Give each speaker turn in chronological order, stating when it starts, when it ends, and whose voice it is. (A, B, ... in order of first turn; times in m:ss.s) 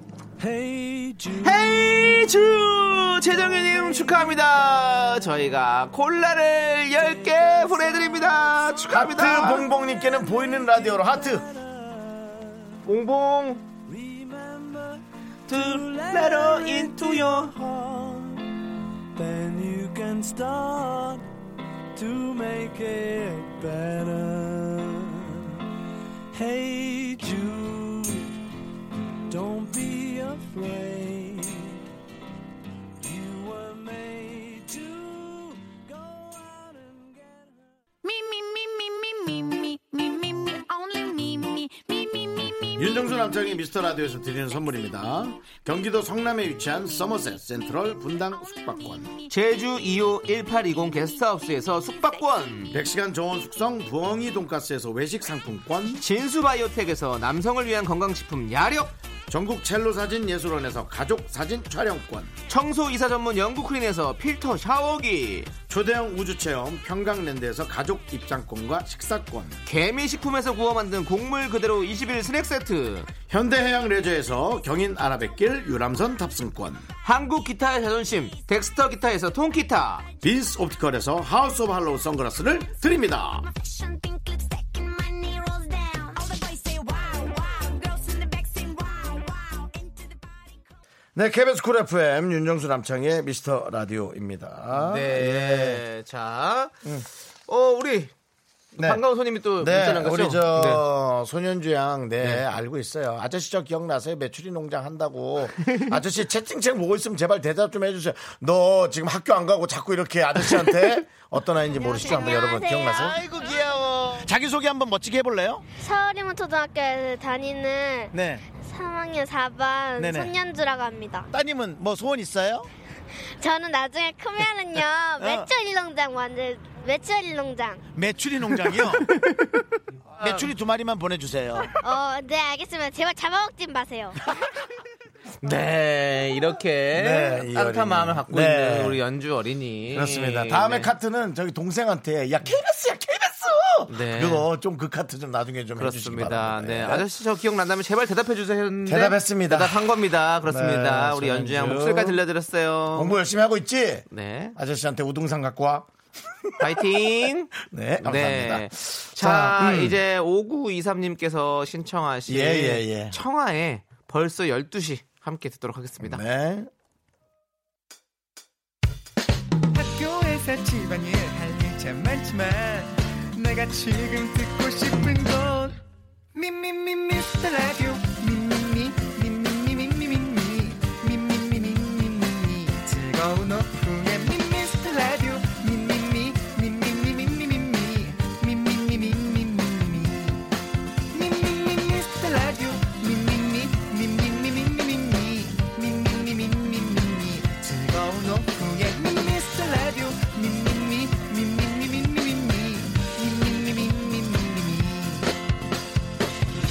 0:00.4-0:02.3 A
0:01.4-0:09.7 B
0:03.3-0:05.2 A
0:06.9-0:12.8 A
0:08.9-0:11.5 C
0:12.8-0:13.6 B
0:13.9-0:18.5 A
0:15.5-0:17.5 B
0:19.2-0:21.2 A
0:21.9-0:25.6 A
0:26.3-0:28.3 A
0:29.3-0:31.8 A
0:33.0-0:37.6 A
0:38.0-0:43.4 D
0:42.8-0:49.1 C
0:48.4-0:49.1 D
0:49.3-0:52.7 B
0:50.9-0:52.6 D
0:52.7-0:56.0 C
0:56.0-0:58.9 B
0:59.3-1:02.3 C
1:02.5-1:05.5 B
1:05.7-1:09.6 C
1:09.6-1:13.1 B
1:13.3-1:16.8 C
1:17.0-1:20.0 B
1:20.2-1:23.5 C
1:23.5-1:30.5 D
1:31.1-1:35.8 C
1:34.7-1:36.8 B
1:37.5-1:38.1 B
1:38.7-1:40.8 B
1:38.8-1:39.0 C
1:39.6-1:55.6 C
1:51.7-1:53.2 E
1:55.8-2:01.3 E
1:58.1-1:58.4 C
2:00.0-2:00.3 C
2:01.3-2:02.7 C
2:03.4-2:07.8 E
2:05.2-2:05.5 C
2:07.9-2:09.1 C
2:10.2-2:11.7 C
2:10.2-2:10.4 B
2:11.8-2:14.2 E
2:15.4-2:20.9 B
2:16.9-2:19.0 C
2:19.9-2:27.1 C
2:23.9-2:24.5 B
2:25.8-2:33.2 B
2:28.8-2:29.9 C
2:30.4-2:32.2 C
2:32.9-2:35.9 C
2:34.1-2:34.6 B
2:36.4-2:36.8 C
2:36.6-2:46.2 B
2:37.6-2:40.0 C
2:42.3-2:43.2 C
2:46.0-2:46.7 C
2:49.7-2:55.8 F
2:56.3-3:10.5 F
3:11.1-3:25.3 F